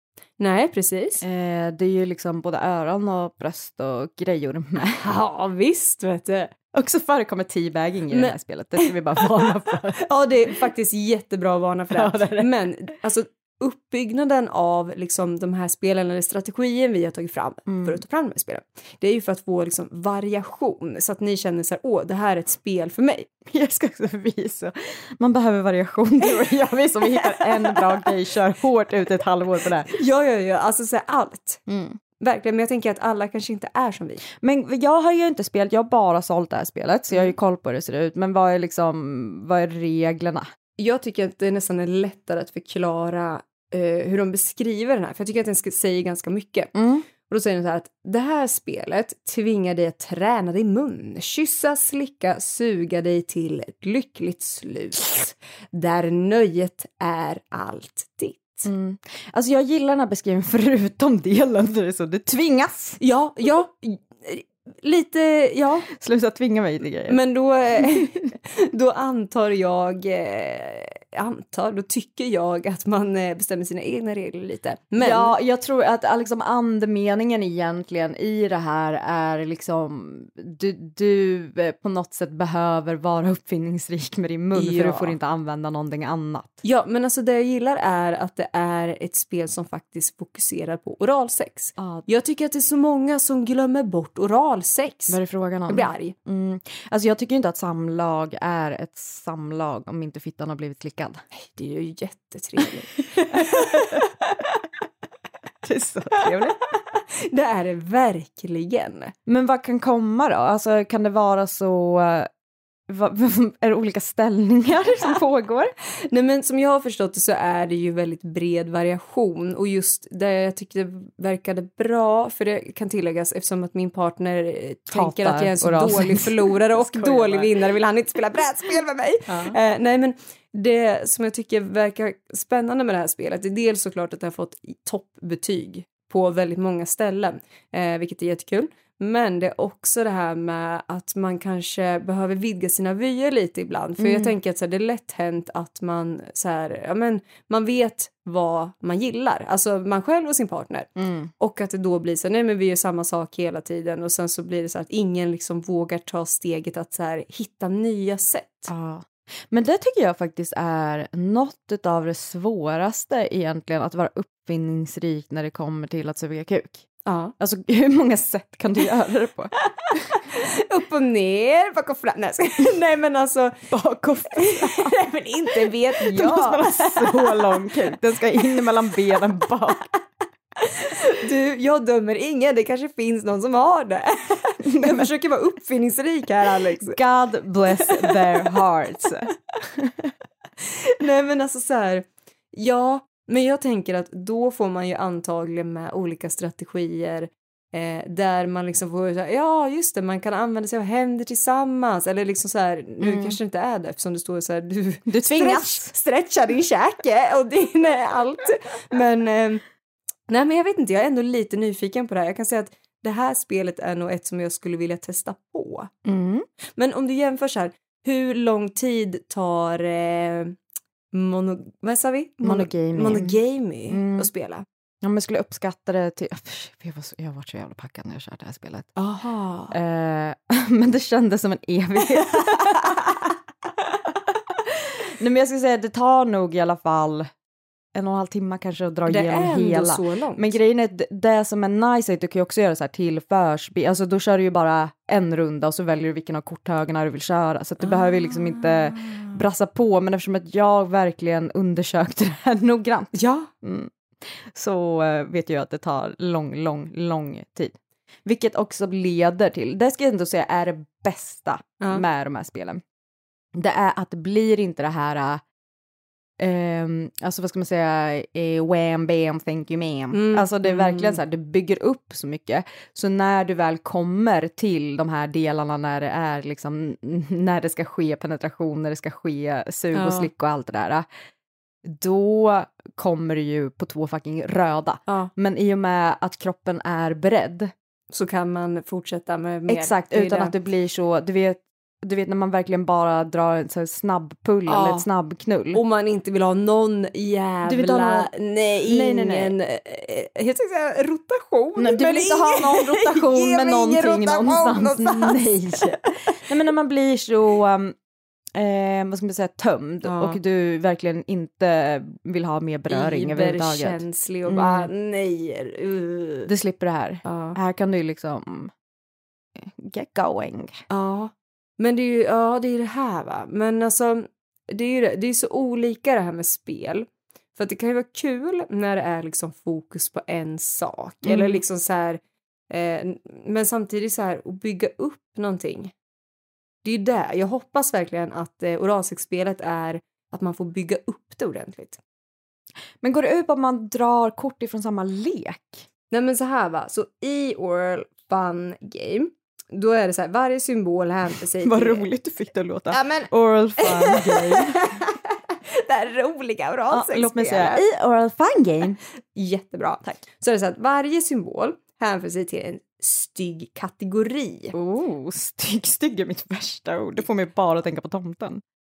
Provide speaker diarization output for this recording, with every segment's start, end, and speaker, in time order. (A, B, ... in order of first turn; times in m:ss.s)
0:00.4-0:01.2 A
0:01.2-0:05.0 B
0:05.0-0:06.5 A
0:06.7-0:10.1 B
0:08.1-0:08.9 A
0:10.0-0:23.3 A
0:11.9-0:12.5 B
0:17.7-0:18.0 B
0:23.5-0:29.9 B
0:29.9-0:31.6 A
0:31.7-0:32.0 B
0:32.2-0:34.2 A
0:34.3-0:40.5 B
0:40.8-0:46.7 A
0:46.8-0:47.1 B
0:47.3-0:58.7 A
0:58.6-1:03.0 B
1:03.0-1:05.9 A
1:05.9-1:07.2 B
1:07.1-1:15.3 A
1:07.8-1:08.2 B
1:15.0-1:26.6 B
1:24.6-1:25.1 A
1:26.6-1:36.1 A
1:31.8-1:32.1 B
1:35.1-1:41.2 B
1:41.4-1:44.0 A
1:43.2-1:44.0 B
1:45.6-1:46.6 B
1:47.3-1:49.1 A
1:49.3-1:52.3 B
1:52.9-1:55.7 B
1:56.1-2:38.7 A
2:04.9-2:07.7 B
2:09.3-2:09.6 B
2:24.0-2:24.3 B
2:31.0-2:31.3 B
2:38.7-2:46.9 B
2:47.0-2:47.3 A
2:47.4-2:50.0 B
2:50.3-2:53.7 A
2:53.7-2:59.9 B
2:54.3-2:57.6 A
3:00.7-3:07.0 A
3:04.7-3:05.1 B
3:06.8-3:10.1 B
3:10.8-3:29.6 A
3:23.0-3:23.4 B
3:25.1-3:25.9 B
3:30.3-3:35.9 A
3:36.0-3:36.5 B
3:36.8-3:40.6 A
3:41.1-3:44.6 A
3:42.4-3:43.4 B
3:43.9-3:44.3 B
3:45.0-3:48.9 B
3:49.0-3:49.8 A
3:49.7-3:53.3 B
3:54.1-3:57.3 B
3:57.9-4:22.8 B
3:59.1-4:00.5 A
4:08.6-4:09.2 A
4:13.1-4:13.5 A
4:23.6-4:25.4 B
4:26.4-4:41.1 B
4:30.1-4:31.2 A
4:39.9-4:40.3 A
4:41.8-4:47.7 B
4:48.1-4:50.5 A
4:49.7-4:55.8 B
4:54.7-4:55.1 A
4:55.7-5:05.9 A
4:57.6-4:58.3 B
4:58.8-4:59.6 B
5:01.8-5:08.0 B
5:08.6-5:14.9 B
5:10.0-5:10.4 A
5:12.9-5:16.5 A
5:16.5-5:18.7 B
5:17.2-5:17.6 A
5:19.6-5:20.8 B
5:20.9-5:35.9 A
5:31.2-5:31.6 B
5:36.8-5:42.0 A
5:43.0-5:45.9 B
5:46.1-5:52.1 A
5:51.6-5:54.9 B
5:52.9-5:55.2 A
5:55.8-5:57.8 A
5:56.9-5:59.0 B
5:59.4-6:04.7 A
6:04.7-6:08.6 B